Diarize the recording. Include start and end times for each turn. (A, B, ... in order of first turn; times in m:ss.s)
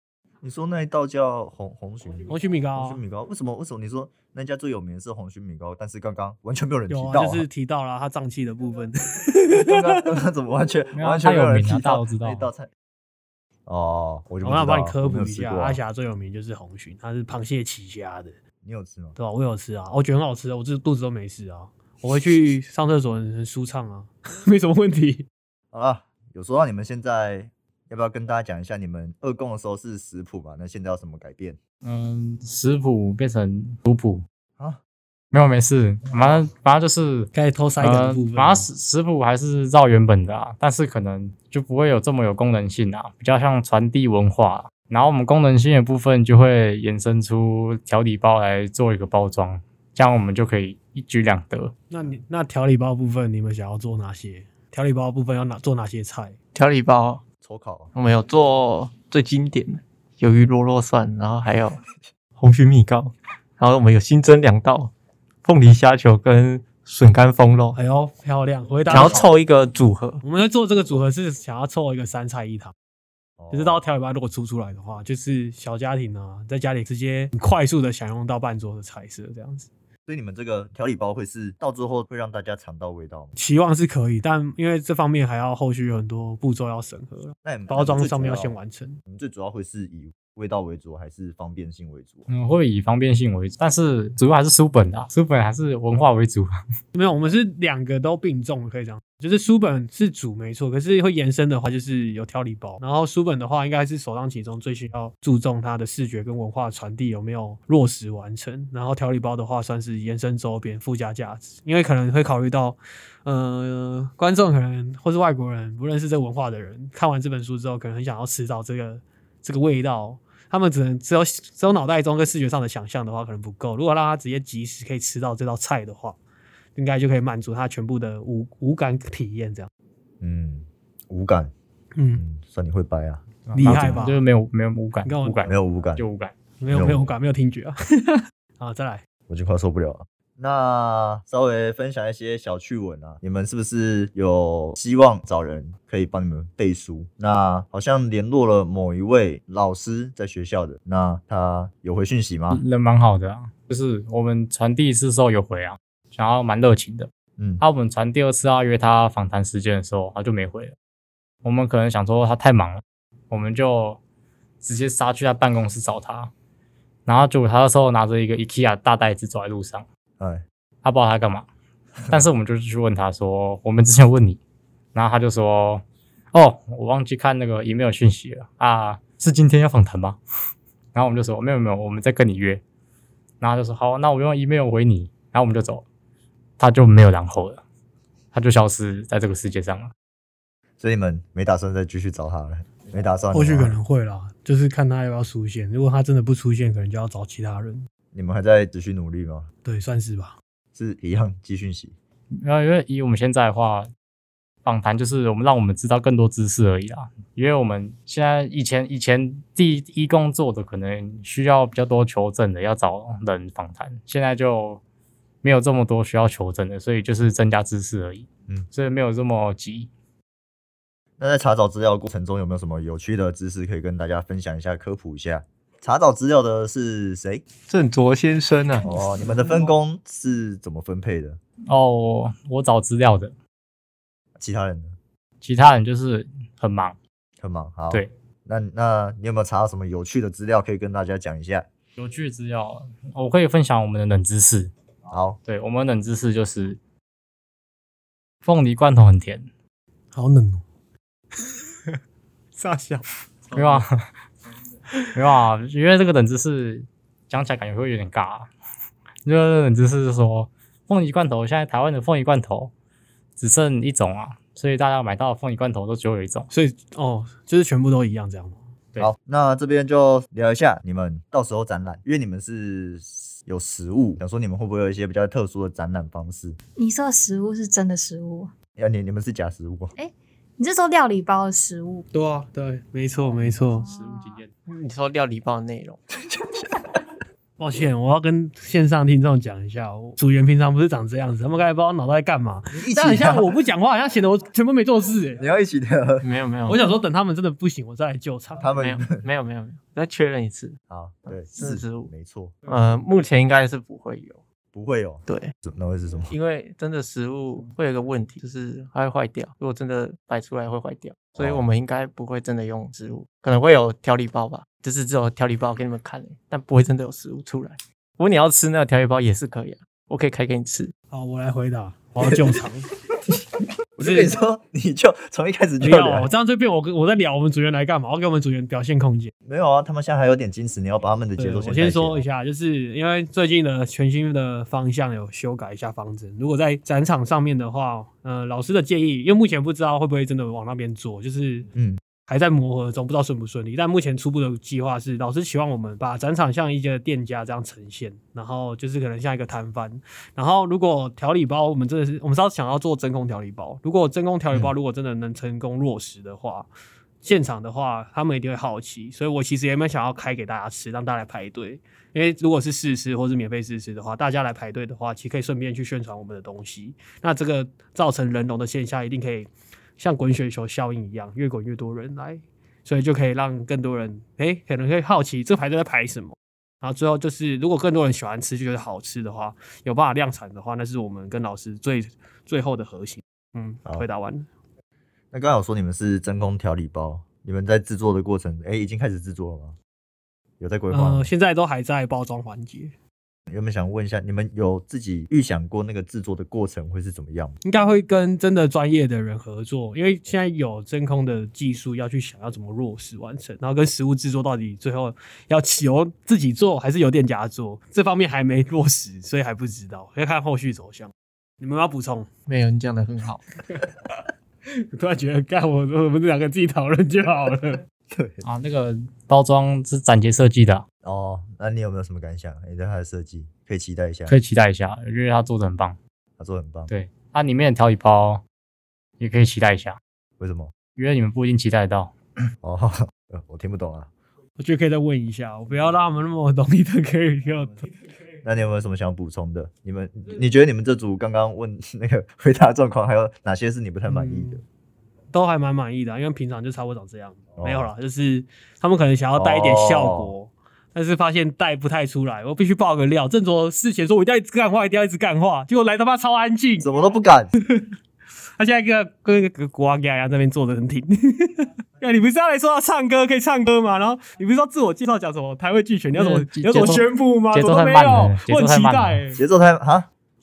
0:00.4-0:07.5 A
0:02.3-0:03.0 B
0:06.9-0:10.0 B
0:09.5-0:12.7 A
0:11.0-0:12.5 C
0:13.7-0:15.8 A
0:14.4-0:18.4 B
0:18.6-0:19.2 A
0:19.2-0:25.3 B
0:25.7-0:31.6 A
0:31.8-0:34.2 C
0:35.3-0:51.7 C
0:37.3-0:38.7 B
0:51.9-0:56.4 B
0:56.6-0:57.2 D
0:57.4-0:57.9 A
0:58.0-1:01.8 D
1:02.4-1:04.9 D
1:05.4-1:07.8 D
1:07.8-1:09.3 B
1:08.9-1:10.2 D
1:10.2-1:12.7 B
1:13.4-1:13.8 A
1:13.5-1:19.7 B
1:20.1-1:23.3 A
1:23.4-1:29.0 B
1:27.4-1:28.6 A
1:29.1-1:32.3 A
1:32.3-1:36.5 C
1:36.9-2:06.2 B
2:06.8-2:09.7 B
2:10.2-2:11.5 A
2:12.0-2:12.2 B
2:12.2-2:14.0 A
2:13.5-2:16.4 C
2:13.5-2:14.2 B
2:15.0-2:15.5 B
2:15.5-2:16.0 A
2:16.6-2:19.0 B
2:16.7-2:17.1 A
2:19.3-2:32.6 A
2:32.5-2:40.8 C
2:37.4-2:37.6 A
2:41.4-2:44.0 C
2:44.6-2:46.3 C
2:47.1-2:49.8 C
2:50.2-2:50.4 A
2:50.8-2:51.5 C
2:52.1-2:54.4 C
2:54.9-3:00.2 C
3:00.9-3:02.6 C
3:03.4-3:05.8 C
3:06.6-3:07.6 C
3:08.3-3:09.9 C
3:10.8-3:13.8 A
3:13.3-3:17.9 B
3:18.1-3:19.5 A
3:19.6-3:20.4 B
3:20.7-3:22.0 A
3:22.4-3:23.9 C
3:24.6-3:34.8 C
3:35.4-3:39.9 C
3:41.2-3:47.4 A
3:47.7-3:48.9 D
3:48.8-3:51.4 A
3:51.7-3:53.3 C
3:54.4-3:55.0 A
3:55.4-3:57.0 C
3:57.4-4:01.7 A
4:02.0-4:04.7 C
4:05.1-4:05.4 A
4:05.4-4:06.8 C
4:08.4-4:09.5 C
4:10.1-4:10.6 B
4:12.6-4:13.8 B
4:13.5-4:14.0 C
4:15.2-4:18.5 C
4:19.2-4:22.7 C
4:23.4-4:26.5 C
4:26.5-4:28.6 B
4:29.0-4:36.6 A
4:36.8-4:38.5 E
4:38.8-4:39.9 A
4:40.0-4:42.1 E
4:42.1-4:43.9 B
4:43.8-4:44.4 E
4:43.8-4:44.5 C
4:44.7-4:46.0 D
4:46.2-4:46.7 A
4:47.6-4:55.4 B
4:52.7-4:53.5 A
4:55.4-4:56.2 A
4:56.2-4:56.8 D
4:56.7-4:58.7 B
4:58.6-4:59.2 A
4:58.8-5:00.8 D
5:00.9-5:02.5 A
5:01.3-5:02.1 D
5:02.7-5:04.4 D
5:04.7-5:06.3 A
5:05.3-5:05.5 D
5:06.3-5:20.9 D
5:11.4-5:11.6 A
5:21.1-5:22.9 B
5:24.0-5:26.3 A
5:24.0-5:24.3 B
5:25.8-5:29.3 B
5:29.4-5:32.2 A
5:31.4-5:41.7 B
5:41.7-5:42.0 A
5:42.3-5:56.7 B
5:57.2-6:24.5 B
6:25.3-6:29.8 A
6:30.6-6:31.3 A
6:30.9-6:32.9 B
6:33.5-6:37.6 A
6:37.6-6:52.3 B
6:52.5-6:53.4 D
6:54.9-6:57.8 B
6:58.1-6:58.4 A
6:58.4-7:00.8 C
7:01.0-7:04.4 A
7:04.3-7:06.0 C
7:06.4-7:06.9 A
7:06.9-7:08.4 C
7:09.2-7:10.0 C
7:10.4-7:10.7 A
7:10.9-7:12.2 C
7:12.6-7:14.1 A
7:14.6-7:17.9 B
7:18.4-7:24.6 A
7:24.1-7:24.6 B
7:25.3-7:36.9 B
7:27.6-7:27.9 A
7:29.4-7:30.3 A
7:36.8-7:37.5 A
7:38.6-7:49.4 B
7:46.2-7:49.2 C
7:49.4-7:50.1 A